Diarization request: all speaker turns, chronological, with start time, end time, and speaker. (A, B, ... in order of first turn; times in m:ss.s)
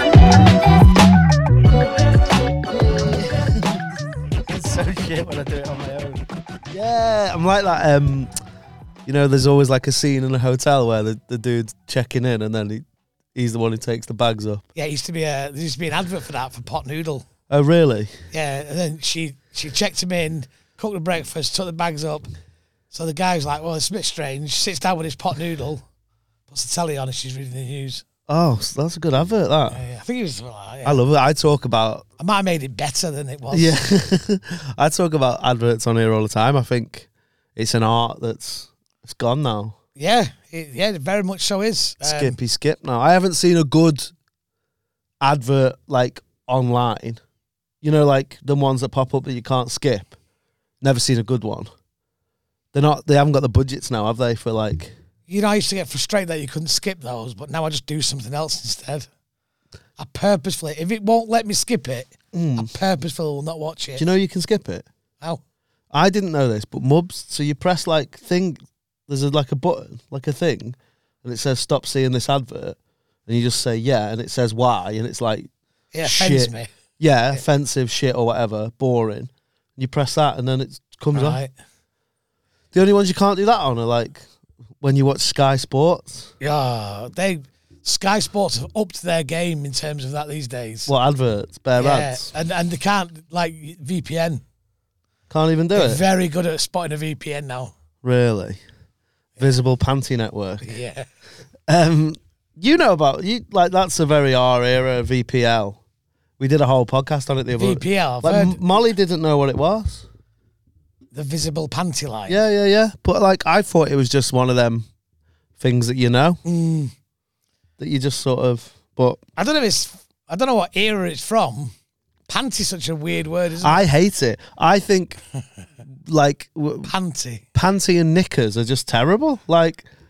0:02.6-0:03.9 A
0:04.5-0:08.3 A
0:09.0-0:14.6 A
0:14.7-0:17.3 B
0:17.5-0:18.1 A
0:18.3-0:22.3 B
0:22.9-0:25.8 B
0:26.5-0:28.0 B
0:28.3-0:29.8 A
0:29.7-0:31.0 B
0:30.8-0:32.0 A
0:32.2-0:33.8 B
0:33.5-0:39.7 A
0:40.0-0:42.4 B
0:42.0-0:44.1 A
0:45.2-0:47.2 A
0:47.8-0:50.1 A
0:50.8-0:51.7 A
0:52.7-0:54.9 A
0:55.3-0:59.1 B
1:00.0-1:04.0 B
1:02.3-1:02.7 A
1:04.0-1:04.8 A
1:05.9-1:15.5 A
1:15.9-1:16.7 B
1:16.0-1:21.4 A
1:21.1-1:21.5 B
1:22.7-1:24.3 A
1:24.8-1:26.3 A
1:26.4-1:30.9 B
1:30.9-1:32.3 A
1:31.8-1:34.4 B
1:35.3-1:36.0 A
1:35.7-1:37.7 B
1:38.0-1:38.6 A
1:39.4-1:40.7 A
1:40.6-1:41.1 B
1:41.7-1:45.8 A
1:46.4-1:50.0 A
1:47.6-1:48.6 B
1:51.1-1:52.4 B
1:52.3-1:54.8 A
1:55.6-1:56.4 A
1:56.4-1:56.9 B
1:57.8-1:59.2 A
1:59.4-2:01.7 B
2:02.3-2:03.8 B
2:03.6-2:05.2 A
2:06.0-2:06.9 A
2:06.8-2:07.4 B
2:07.5-2:09.8 A